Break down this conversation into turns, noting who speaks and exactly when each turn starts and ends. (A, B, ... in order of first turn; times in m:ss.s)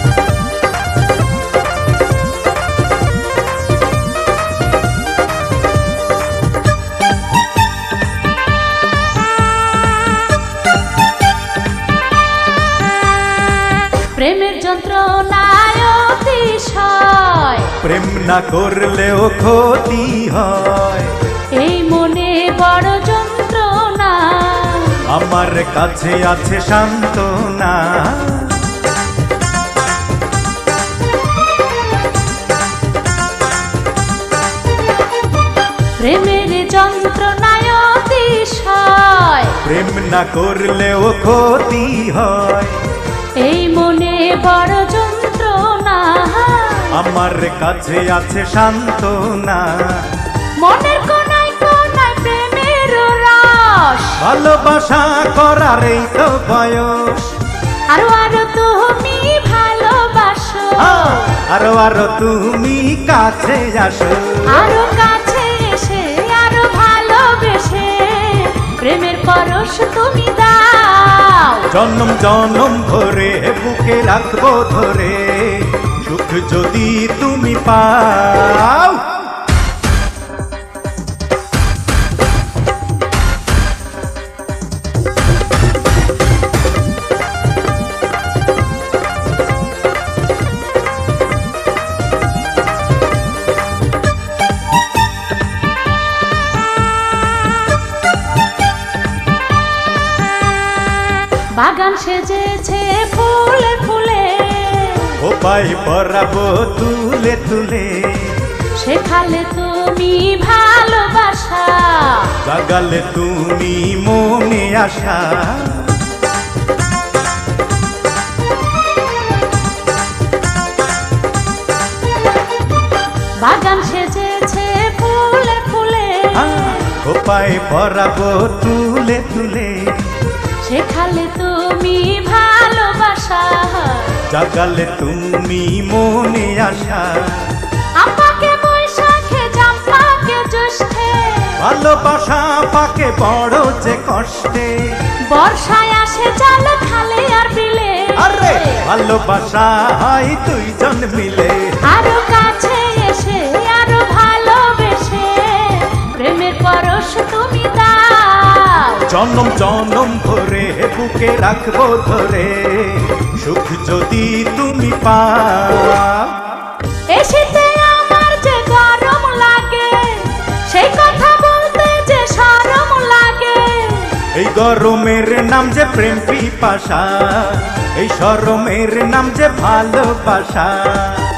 0:14.1-0:17.7 A
0:17.8-0:21.2 B
0:21.5-0:25.0 A
0:25.1-0:28.7 B
0:36.0-0:39.6 A
0:39.6-0:42.8 B
0:43.4-0:47.0 A
0:46.9-0:50.1 B
0:50.6-0:54.2 A
0:54.2-0:57.3 B
0:57.9-1:01.3 A
1:00.8-1:04.8 B
1:04.5-1:11.7 A
1:11.7-1:19.2 B
1:41.5-1:45.2 A
1:45.2-1:48.4 B
1:48.8-1:52.4 A
1:52.4-1:56.0 B
2:03.4-2:06.9 A
2:06.3-2:10.0 B
2:10.6-2:14.2 A
2:14.3-2:17.5 B
2:18.0-2:21.6 A
2:21.6-2:24.9 B
2:25.3-2:28.8 A
2:28.2-2:31.8 B
2:31.8-2:39.1 A
2:39.0-2:46.4 B
2:47.1-2:54.2 A
2:54.3-3:01.3 B